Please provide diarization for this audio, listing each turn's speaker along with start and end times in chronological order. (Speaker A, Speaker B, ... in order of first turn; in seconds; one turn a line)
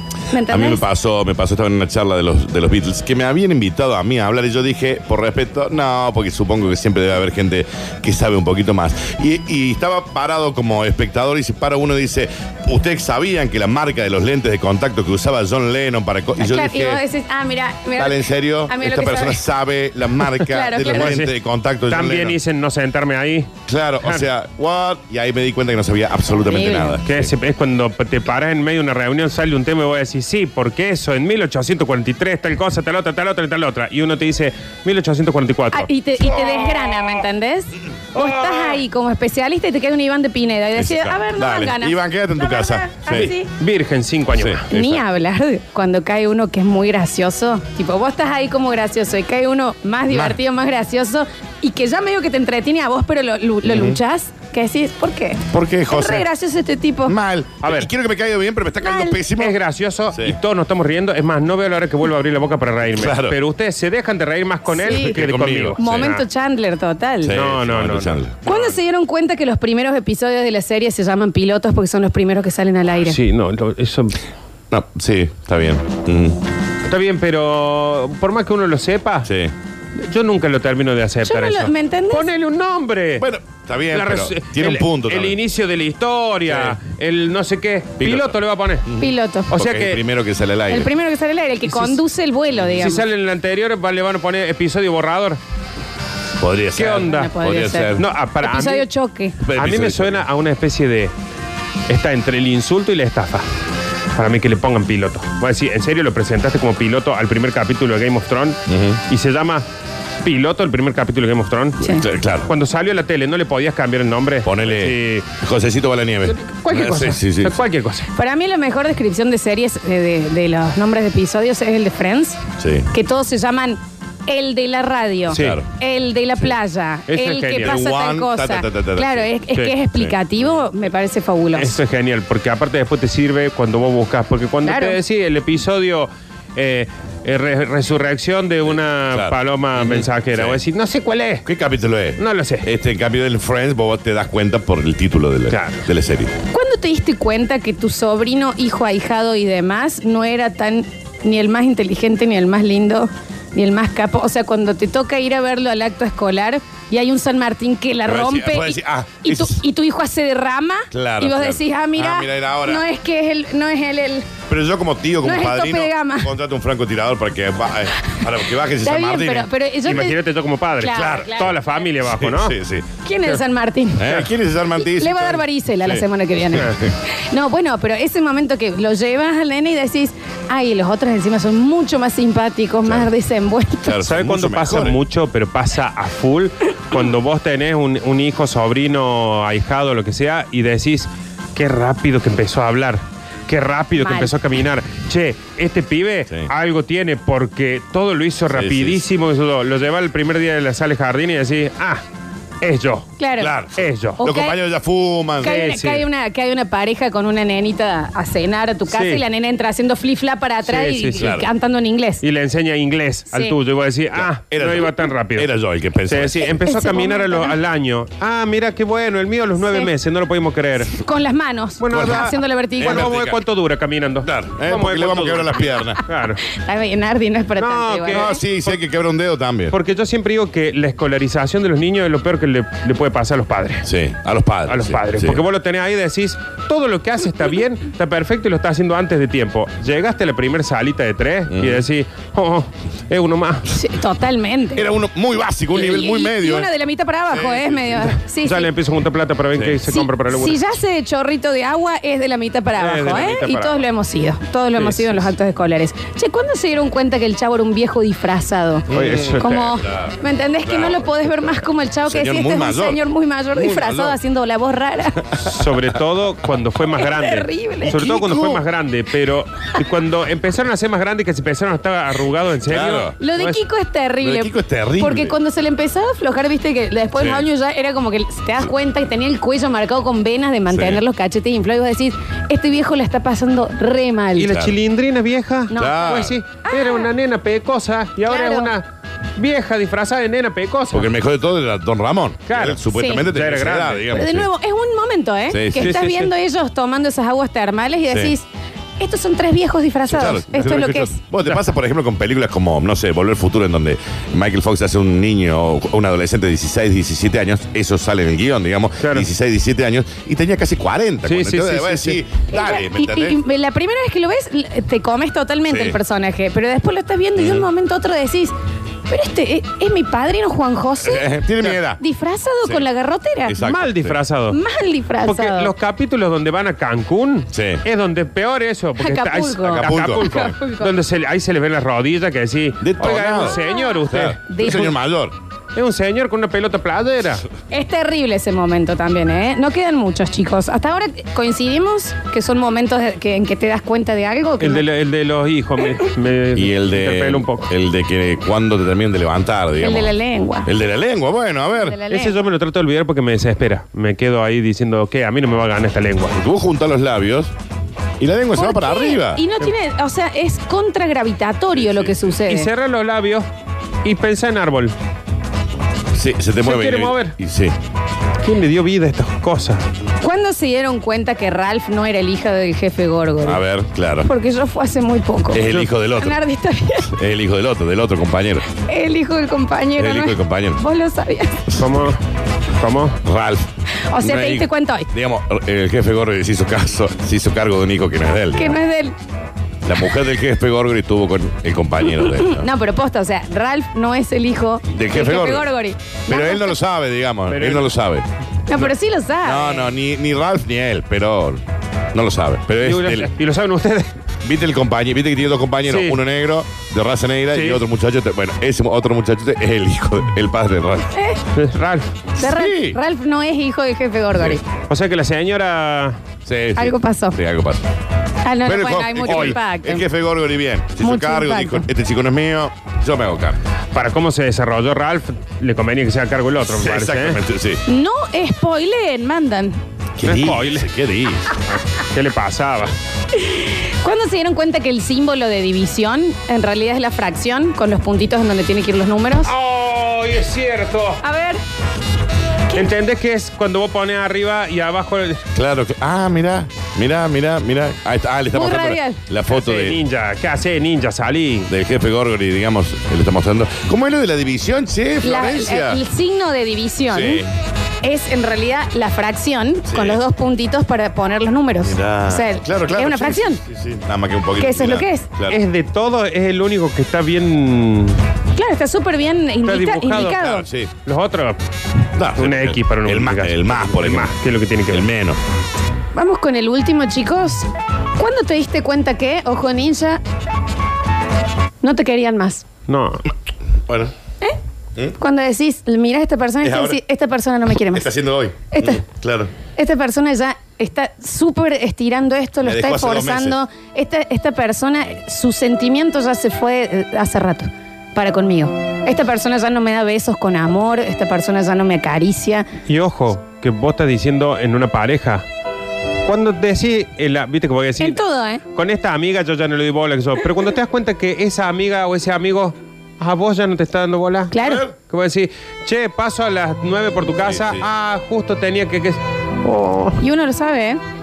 Speaker A: 0.3-0.8
Speaker B: 0.5-17.0
Speaker A: 16.4-19.4
Speaker B: 18.0-22.4
Speaker A: 20.5-21.1
Speaker C: 20.9-21.3
Speaker C: 21.9-23.5
Speaker B: 23.7-27.3
Speaker A: 26.5-27.0
Speaker C: 27.1-37.0
Speaker A: 35.7-43.5
Speaker C: 38.1-38.8
Speaker B: 40.8-43.3
Speaker C: 43.1-44.6
Speaker B: 44.4-45.0
Speaker A: 44.7-57.1
Speaker B: 50.1-50.4
Speaker B: 53.6-54.0
Speaker B: 55.5-56.3
Speaker B: 57.1-59.6
Speaker C: 57.6-57.9
Speaker A: 58.8-59.2
Speaker C: 59.4-66.2
Speaker B: 62.9-63.4
Speaker A: 64.7-65.2
Speaker B: 64.9-66.1
Speaker A: 65.8-67.4
Speaker B: 67.2-68.3
Speaker C: 67.3-68.8
Speaker A: 68.5-73.2
Speaker C: 73.1-74.2
Speaker B: 74.7-76.4
Speaker C: 76.9-79.3
Speaker B: 79.3-79.5
Speaker C: 80.0-83.3
Speaker A: 81.2-82.3
Speaker B: 83.2-85.4
Speaker C: 83.9-88.9
Speaker B: 86.5-86.8
Speaker B: 88.0-88.4
Speaker B: 88.9-90.9
Speaker A: 89.0-89.5
Speaker C: 89.5-90.0
Speaker A: 90.7-93.0
Speaker C: 91.7-92.0
Speaker C: 92.8-95.4
Speaker B: 96.4-98.1
Speaker C: 96.8-97.3
Speaker A: 97.0-99.4
Speaker C: 98.0-98.9
Speaker B: 99.5-100.2
Speaker C: 99.5-101.1
Speaker C: 101.9-103.5
Speaker C: 104.2-109.7
Speaker B: 108.7-109.0
Speaker C: 110.2-115.3
Speaker B: 111.9-112.5
Speaker B: 114.5-117.6
Speaker C: 116.3-118.1
Speaker A: 118.1-122.4
Speaker B: 122.6-122.9
Speaker A: 122.9-131.8
Speaker C: 125.3-125.6
Speaker B: 125.3-125.7
Speaker C: 127.1-127.8
Speaker B: 127.6-130.2
Speaker C: 131.6-141.4
Speaker A: 134.6-135.0
Speaker B: 139.1-140.6
Speaker B: 141.4-146.3
Speaker C: 142.2-142.7
Speaker C: 145.5-145.8
Speaker A: 146.5-164.3
Speaker B: 158.1-159.6
Speaker B: 160.9-162.8
Speaker B: 164.5-169.5
Speaker A: 165.2-166.3
Speaker A: 168.8-170.2
Speaker C: 169.8-172.6
Speaker A: 170.8-171.6
Speaker B: 170.9-171.5
Speaker B: 172.0-172.9
Speaker A: 173.1-184.0
Speaker B: 174.0-176.9
Speaker B: 183.8-185.0
Speaker C: 184.0-202.0
Speaker A: 194.0-194.3
Speaker B: 198.5-199.0
Speaker C: 202.6-203.1
Speaker A: 203.2-203.5
Speaker B: 203.4-205.6
Speaker C: 203.8-204.2
Speaker A: 204.2-204.6
Speaker A: 205.4-212.2
Speaker C: 205.4-206.1
Speaker C: 208.9-209.2
Speaker C: 210.7-211.3
Speaker B: 211.2-211.5
Speaker C: 212.2-215.5
Speaker B: 214.1-216.5
Speaker C: 216.1-220.9
Speaker A: 216.7-217.6
Speaker A: 220.9-223.1
Speaker C: 221.8-226.4
Speaker B: 221.9-223.4
Speaker B: 224.2-226.0
Speaker A: 226.5-228.4
Speaker C: 227.6-228.3
Speaker B: 228.1-229.8
Speaker C: 229.7-233.9
Speaker B: 233.8-235.4
Speaker C: 234.7-243.7
Speaker B: 241.5-241.8
Speaker A: 243.7-244.9
Speaker B: 244.8-246.7
Speaker A: 245.7-248.7
Speaker B: 247.3-248.1
Speaker C: 248.4-250.6
Speaker B: 249.6-249.8
Speaker A: 249.9-258.9
Speaker C: 252.8-253.8
Speaker C: 254.8-255.3
Speaker B: 258.9-261.6
Speaker C: 258.9-259.7
Speaker A: 259.4-265.2
Speaker B: 262.1-263.0
Speaker B: 263.5-264.2
Speaker C: 265.4-273.6
Speaker A: 267.0-268.0
Speaker B: 267.9-268.6
Speaker B: 272.6-273.1
Speaker A: 273.2-284.5
Speaker B: 274.2-275.4
Speaker B: 277.2-277.5
Speaker B: 280.7-281.0
Speaker C: 284.4-288.9
Speaker B: 284.5-284.8
Speaker A: 285.7-287.1
Speaker B: 285.7-286.4
Speaker A: 288.3-288.7
Speaker C: 289.4-291.1
Speaker B: 290.9-294.5
Speaker C: 292.5-294.1
Speaker A: 292.9-293.2
Speaker A: 294.1-298.5
Speaker B: 295.5-295.9
Speaker C: 295.8-296.3
Speaker A: 299.0-301.2
Speaker B: 300.1-313.4
Speaker C: 309.0-309.3
Speaker C: 311.3-312.2
Speaker A: 312.5-318.5
Speaker B: 315.7-316.0
Speaker B: 317.4-317.7
Speaker A: 319.1-321.3
Speaker B: 321.0-322.0
Speaker A: 322.0-323.6
Speaker B: 323.5-324.2
Speaker C: 323.6-324.6
Speaker A: 324.5-325.7
Speaker C: 325.2-334.4
Speaker B: 327.5-327.8
Speaker A: 329.0-330.9
Speaker B: 329.7-330.5
Speaker B: 332.8-335.3
Speaker A: 333.4-334.9
Speaker C: 335.8-337.4
Speaker A: 337.7-344.8
Speaker C: 344.6-347.7
Speaker B: 346.6-352.0
Speaker A: 349.8-350.7
Speaker A: 351.8-352.4
Speaker C: 352.1-356.4
Speaker B: 356.4-357.5
Speaker B: 358.2-359.4
Speaker A: 358.5-362.7
Speaker B: 361.8-362.3
Speaker C: 362.5-363.5
Speaker C: 364.0-364.9
Speaker B: 366.1-367.7
Speaker C: 366.6-367.4
Speaker C: 368.4-369.8
Speaker A: 370.2-373.6
Speaker B: 373.4-374.3
Speaker A: 374.3-375.7
Speaker B: 375.5-376.4
Speaker A: 376.2-377.1
Speaker B: 377.1-378.6
Speaker A: 378.8-381.6
Speaker B: 380.0-380.8
Speaker C: 381.8-382.2
Speaker C: 382.8-383.2
Speaker B: 383.2-388.8
Speaker A: 384.1-385.1
Speaker A: 388.6-389.1
Speaker B: 389.8-392.7
Speaker A: 392.1-396.8
Speaker B: 394.9-395.7
Speaker B: 396.3-398.3
Speaker C: 397.5-397.9
Speaker A: 398.7-399.9
Speaker B: 399.4-401.6
Speaker B: 402.1-403.3
Speaker C: 402.8-404.1
Speaker B: 404.4-411.1
Speaker C: 405.9-406.2
Speaker C: 407.5-407.8
Speaker A: 411.1-411.4
Speaker C: 411.6-412.1
Speaker B: 412.4-413.0
Speaker A: 412.4-414.6
Speaker C: 414.9-416.2
Speaker B: 416.4-417.9
Speaker A: 416.8-417.4
Speaker A: 418.4-420.1
Speaker B: 418.6-423.6
Speaker C: 419.3-419.6
Speaker A: 421.0-421.9
Speaker C: 423.9-427.4
Speaker B: 426.7-427.8
Speaker A: 427.9-429.8
Speaker B: 430.2-431.5
Speaker C: 430.2-430.9
Speaker C: 432.1-432.9
Speaker A: 433.3-439.5
Speaker C: 439.5-441.2
Speaker A: 441.2-441.6
Speaker C: 442.7-445.4
Speaker B: 445.5-450.0
Speaker A: 448.5-449.2
Speaker C: 449.5-451.7
Speaker B: 451.7-456.0
Speaker A: 455.2-457.4
Speaker B: 457.1-457.5
Speaker A: 458.0-463.6
Speaker B: 459.9-460.2
Speaker B: 461.8-465.6
Speaker A: 464.6-465.3
Speaker C: 465.5-468.2
Speaker A: 468.6-470.6
Speaker C: 469.6-470.4
Speaker B: 470.3-470.9
Speaker C: 471.1-471.6
Speaker B: 472.2-474.3
Speaker C: 472.4-475.1
Speaker B: 474.9-475.4
Speaker A: 476.1-477.7
Speaker A: 478.2-480.2
Speaker A: 481.8-482.6
Speaker C: 482.9-483.2
Speaker B: 483.9-484.1
Speaker A: 485.2-488.1
Speaker B: 486.6-487.0
Speaker B: 487.9-489.5
Speaker A: 488.7-489.0
Speaker A: 489.8-502.7
Speaker B: 492.6-493.6
Speaker C: 502.9-505.4
Speaker C: 506.2-520.2
Speaker A: 508.0-508.6
Speaker A: 514.5-514.9
Speaker B: 514.6-514.9
Speaker B: 517.5-517.9
Speaker A: 520.2-521.0